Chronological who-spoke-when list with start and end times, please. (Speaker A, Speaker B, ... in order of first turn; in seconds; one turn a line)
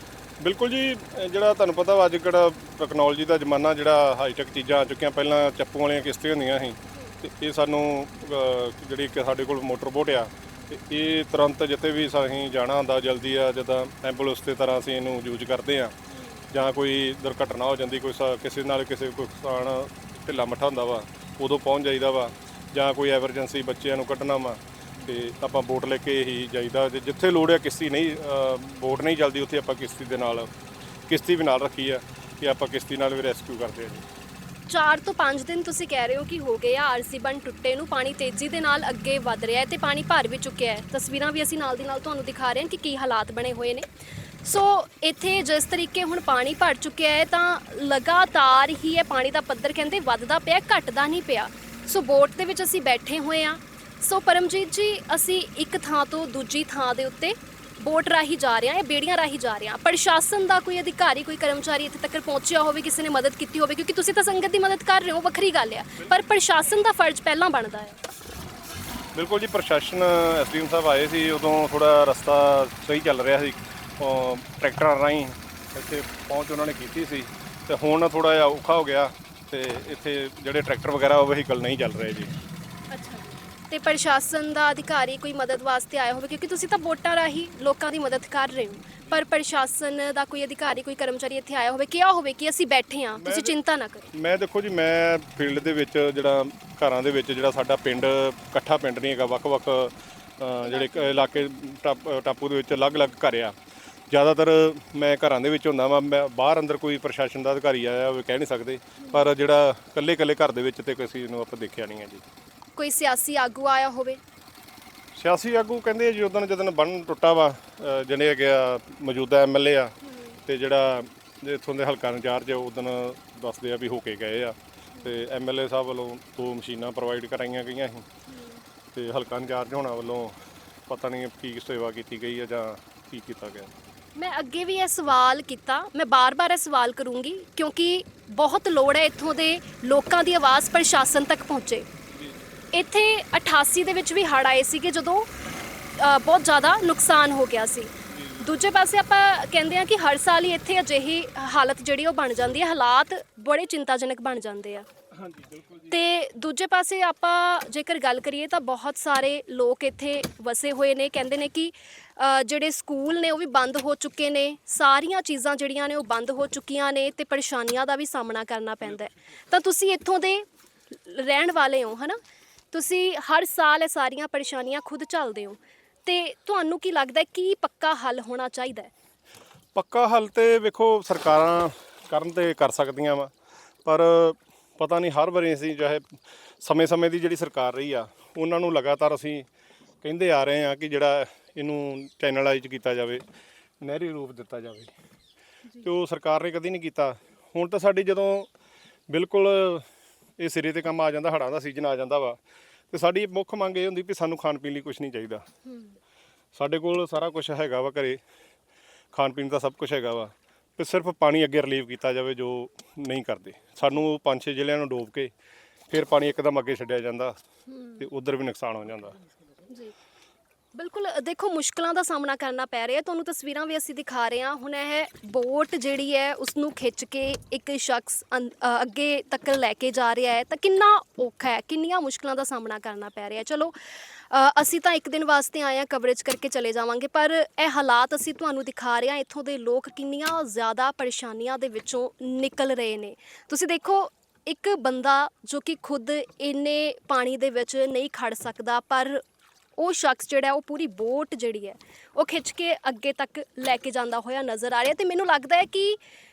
Speaker A: 0.4-15.9
Speaker B: 16.2-16.4
Speaker A: 16.5-30.5
Speaker A: 31.1-34.0
Speaker B: 34.7-43.9
Speaker B: 44.4-68.0
Speaker A: 69.1-82.3
Speaker B: 82.9-94.1
Speaker A: 93.2-93.6
Speaker A: 94.1-103.5
Speaker B: 100.6-101.3
Speaker A: 104.1-112.2
Speaker B: 109.0-109.3
Speaker B: 112.8-114.2
Speaker A: 115.1-128.1
Speaker B: 128.3-128.6
Speaker A: 128.9-133.7
Speaker B: 134.1-141.9
Speaker B: 142.7-145.3
Speaker B: 145.9-154.9
Speaker A: 148.2-148.4
Speaker A: 155.2-155.9
Speaker B: 155.8-172.2
Speaker B: 172.7-178.9
Speaker A: 179.7-183.3
Speaker A: 183.8-186.0
Speaker A: 186.6-189.5
Speaker A: 190.0-193.2
Speaker A: 193.8-194.9
Speaker A: 195.8-198.5
Speaker A: 199.1-199.8
Speaker A: 200.4-202.4
Speaker A: 202.9-205.4
Speaker A: 206.5-208.2
Speaker A: 209.1-215.3
Speaker A: 215.9-217.3
Speaker A: 218.0-219.2
Speaker B: 220.7-233.8
Speaker B: 234.3-249.2
Speaker B: 249.8-256.0